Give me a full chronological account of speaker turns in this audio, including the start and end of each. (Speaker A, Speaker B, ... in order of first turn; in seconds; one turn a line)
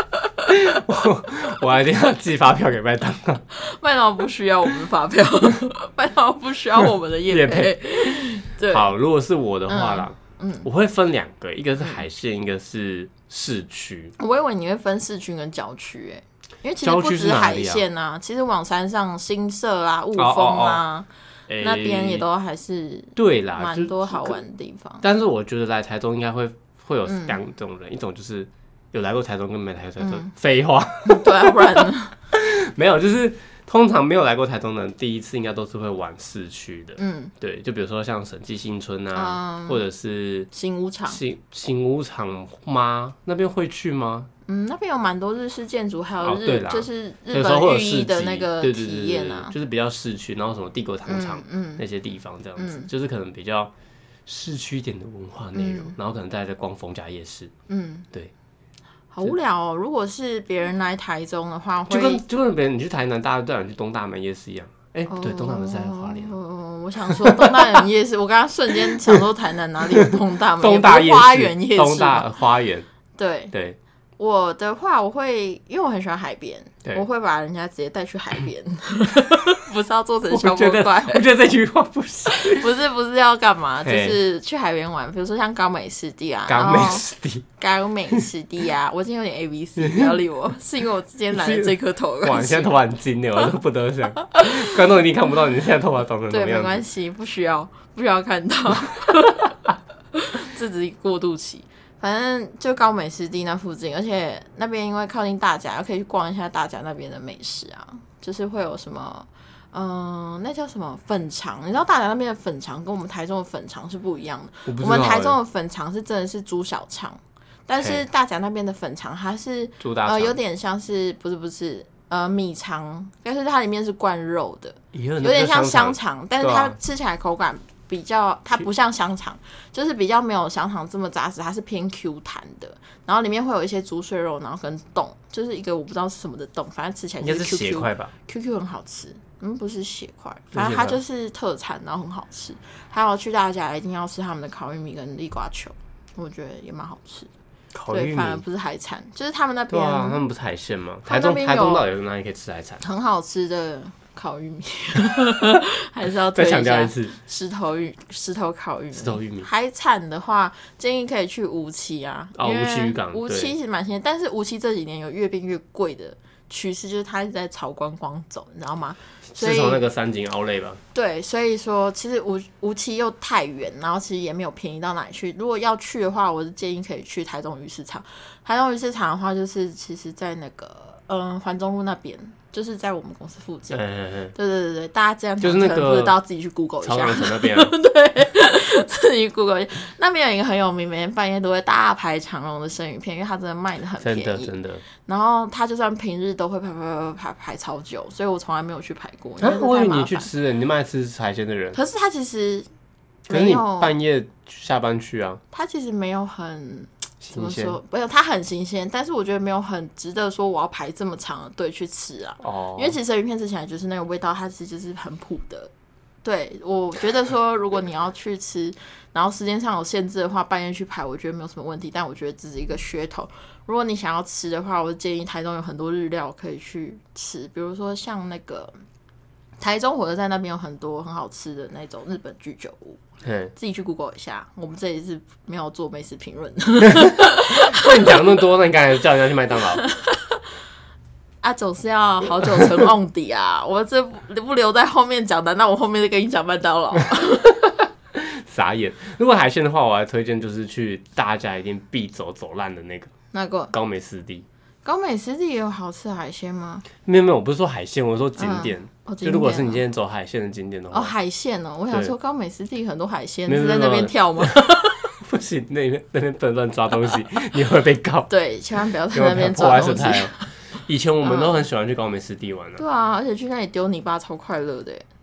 Speaker A: 0.5-3.4
Speaker B: 3.5-8.9
Speaker A: 7.3-14.1
Speaker B: 9.7-10.7
Speaker B: 14.2-25.0
Speaker A: 16.8-17.8
Speaker A: 20.1-20.8
Speaker A: 21.5-22.2
Speaker A: 23.1-24.4
Speaker A: 25.0-40.5
Speaker B: 27.0-27.4
Speaker B: 30.0-30.3
Speaker B: 31.0-32.2
Speaker B: 37.0-37.3
Speaker B: 39.1-39.8
Speaker B: 40.5-41.2
Speaker A: 41.1-44.3
Speaker B: 44.5-49.5
Speaker A: 46.2-53.7
Speaker B: 51.1-51.9
Speaker B: 52.6-52.9
Speaker A: 54.2-57.5
Speaker B: 55.5-56.0
Speaker B: 57.7-58.1
Speaker B: 59.1-62.2
Speaker A: 61.9-66.4
Speaker B: 65.1-72.3
Speaker A: 67.1-67.8
Speaker A: 70.0-72.9
Speaker B: 73.2-73.5
Speaker A: 73.5-73.8
Speaker B: 74.2-81.3
Speaker A: 80.3-82.7
Speaker B: 82.3-87.1
Speaker A: 83.8-84.2
Speaker A: 86.5-87.5
Speaker B: 87.6-92.8
Speaker A: 89.8-90.2
Speaker A: 91.3-96.8
Speaker B: 94.3-94.6
Speaker B: 96.3-99.6
Speaker B: 100.1-147.3
Speaker A: 114.7-115.4
Speaker A: 117.8-118.0
Speaker A: 119.8-120.4
Speaker A: 124.9-126.8
Speaker A: 137.2-138.1
Speaker A: 140.5-141.0
Speaker A: 147.7-148.4
Speaker B: 147.9-150.2
Speaker A: 149.7-152.8
Speaker B: 151.1-151.9
Speaker B: 152.8-169.8
Speaker A: 156.3-157.2
Speaker A: 158.9-159.5
Speaker A: 162.4-163.5
Speaker A: 169.3-170.8
Speaker B: 170.9-183.8
Speaker A: 183.7-184.3
Speaker B: 184.3-200.3
Speaker A: 185.4-186.2
Speaker A: 186.8-187.7
Speaker A: 194.0-194.8
Speaker A: 199.4-201.8
Speaker B: 201.7-202.7
Speaker B: 203.3-203.9
Speaker A: 203.3-205.4
Speaker B: 205.5-215.7
Speaker A: 207.2-207.8
Speaker A: 212.4-213.0
Speaker B: 216.2-228.8
Speaker B: 229.6-233.0
Speaker A: 233.2-233.5
Speaker B: 233.5-238.3
Speaker A: 237.0-239.8
Speaker B: 239.8-240.4
Speaker B: 241.4-247.7
Speaker A: 248.1-253.1
Speaker B: 253.3-253.7
Speaker A: 253.7-254.5
Speaker B: 254.8-256.9
Speaker A: 257.0-261.1
Speaker B: 258.4-259.8
Speaker B: 260.9-265.1
Speaker A: 263.5-268.3
Speaker B: 268.3-270.5
Speaker A: 269.1-272.8
Speaker B: 271.2-271.6
Speaker B: 272.8-275.1